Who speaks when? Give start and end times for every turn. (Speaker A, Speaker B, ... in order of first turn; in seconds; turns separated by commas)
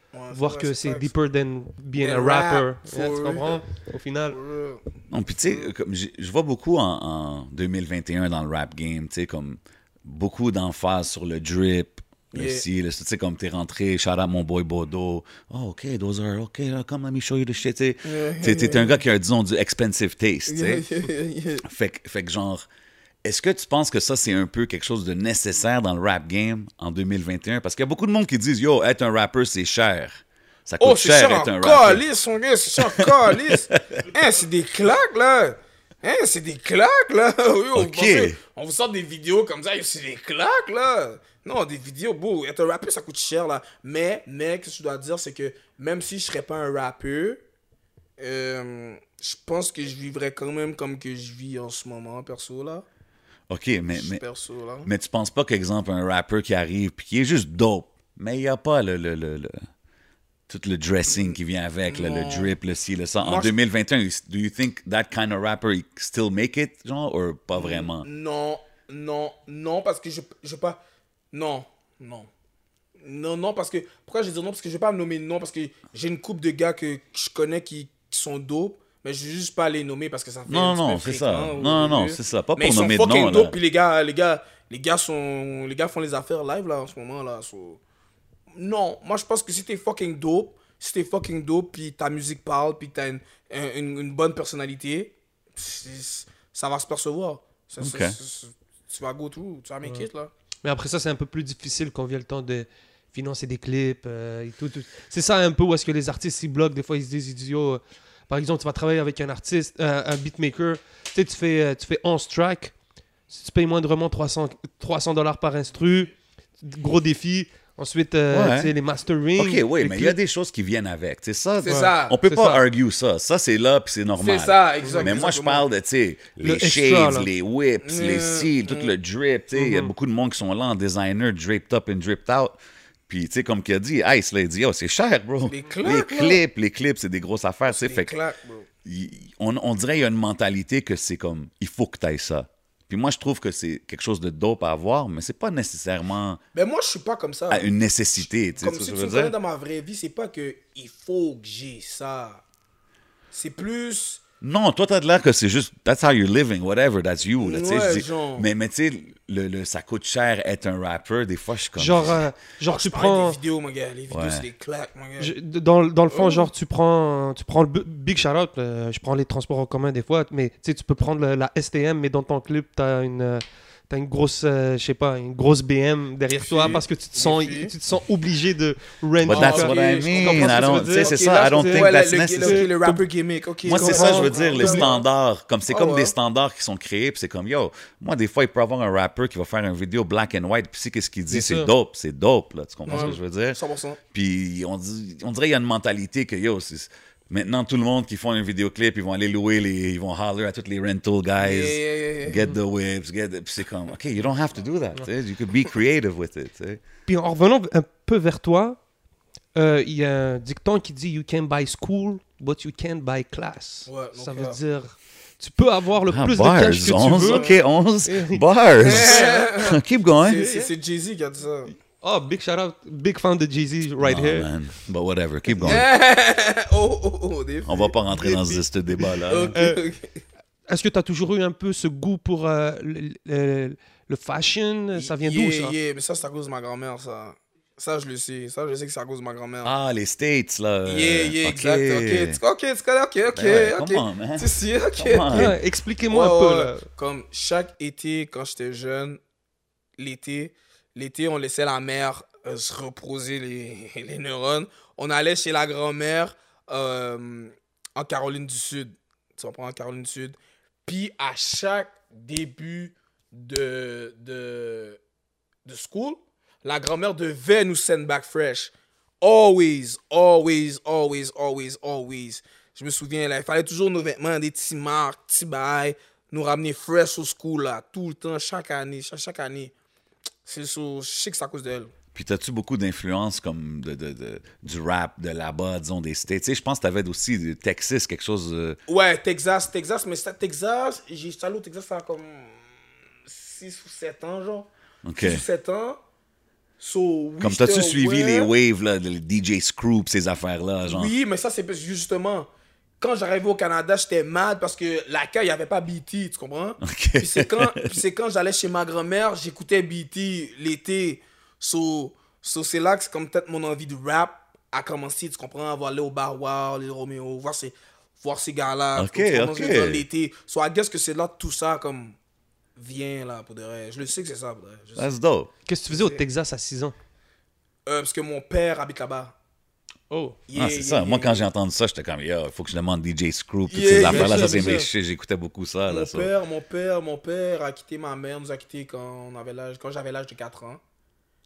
Speaker A: 0.1-1.1, Speaker B: 0.3-4.4, Speaker A: 2.0-3.6, Speaker A: 4.3-4.8, Speaker C: 5.1-20.9, Speaker A: 5.4-5.7, Speaker A: 12.3-12.7, Speaker A: 18.1-19.0, Speaker A: 20.5-21.6, Speaker C: 21.6-22.7, Speaker C: 23.2-32.0, Speaker A: 30.8-47.4, Speaker C: 32.7-34.1, Speaker C: 37.7-38.4, Speaker A: 48.2-52.9, Speaker C: 53.5-54.2, Speaker A: 53.9-54.9, Speaker C: 54.9-59.7, Speaker C: 60.5-68.1, Speaker A: 61.1-61.4, Speaker A: 61.9-62.6, Speaker A: 63.2-63.5, Speaker A: 67.5-70.8, Speaker A: 71.3-72.3, Speaker A: 73.0-87.8, Speaker C: 80.5-83.6, Speaker A: 88.5-100.3, Speaker C: 97.8-98.2, Speaker B: 100.6-112.7, Speaker B: 113.3-120.2, Speaker C: 118.3-118.7, Speaker C: 119.4-138.1, Speaker A: 121.6-122.2, Speaker B: 121.7-122.6, Speaker A: 124.2-125.7, Speaker B: 124.8-125.1, Speaker B: 126.4-127.3, Speaker A: 127.8-128.9, Speaker B: 129.6-129.9, Speaker A: 135.5-136.4, Speaker A: 137.7-138.7, Speaker C: 138.8-146.4, Speaker A: 146.5-147.7, Speaker C: 147.5-149.3, Speaker A: 148.6-152.4, Speaker A: 153.3-154.2, Speaker C: 154.4-162.2, Speaker A: 157.4-158.5, Speaker B: 161.8-163.4, Speaker A: 162.7-165.3, Speaker C: 164.1-164.5, Speaker B: 165.2-183.0, Speaker A: 166.1-166.5, Speaker A: 176.3-177.7, Speaker C: 179.2-182.7, Speaker A: 179.3-185.1, Speaker C: 183.7-193.6, Speaker B: 183.7-184.9, Speaker A: 185.7-186.1, Speaker B: 191.3-191.7, Speaker A: 192.9-194.0, Speaker C: 194.1-206.8, Speaker A: 201.4-202.5, Speaker B: 207.1-208.8, Speaker B: 209.6-217.5, Speaker A: 213.9-214.6, Speaker C: 216.1-220.5, Speaker A: 217.0-217.6, Speaker B: 218.0-219.4, Speaker A: 218.8-221.7, Speaker B: 220.3-220.7, Speaker B: 222.0-224.5, Speaker C: 224.0-225.9, Speaker A: 225.6-230.1, Speaker C: 227.7-229.6, Speaker B: 229.5-229.8, Speaker B: 230.7-235.8, Speaker A: 234.9-239.7, Speaker C: 239.6-242.4, Speaker A: 240.9-245.6, Speaker C: 243.3-245.6, Speaker B: 245.3-246.9, Speaker A: 246.1-249.2, Speaker A: 250.0-265.0, Speaker A: 265.6-279.7, Speaker A: 280.4-281.9, Speaker C: 282.1-288.8, Speaker A: 288.9-292.7, Speaker A: 293.3-296.0, Speaker C: 295.0-295.4, Speaker A: 296.8-298.5, Speaker C: 297.4-301.1, Speaker A: 300.8-302.5, Speaker A: 303.0-322.2, Speaker C: 306.8-308.0, Speaker C: 318.9-320.1, Speaker A: 322.8-325.1, Speaker C: 325.0-325.5, Speaker B: 325.7-326.9, Speaker A: 327.9-329.4, Speaker B: 330.1-330.4, Speaker A: 330.5-331.5, Speaker C: 330.5-336.3, Speaker A: 333.7-334.9, Speaker B: 334.1-334.9, Speaker A: 335.9-340.8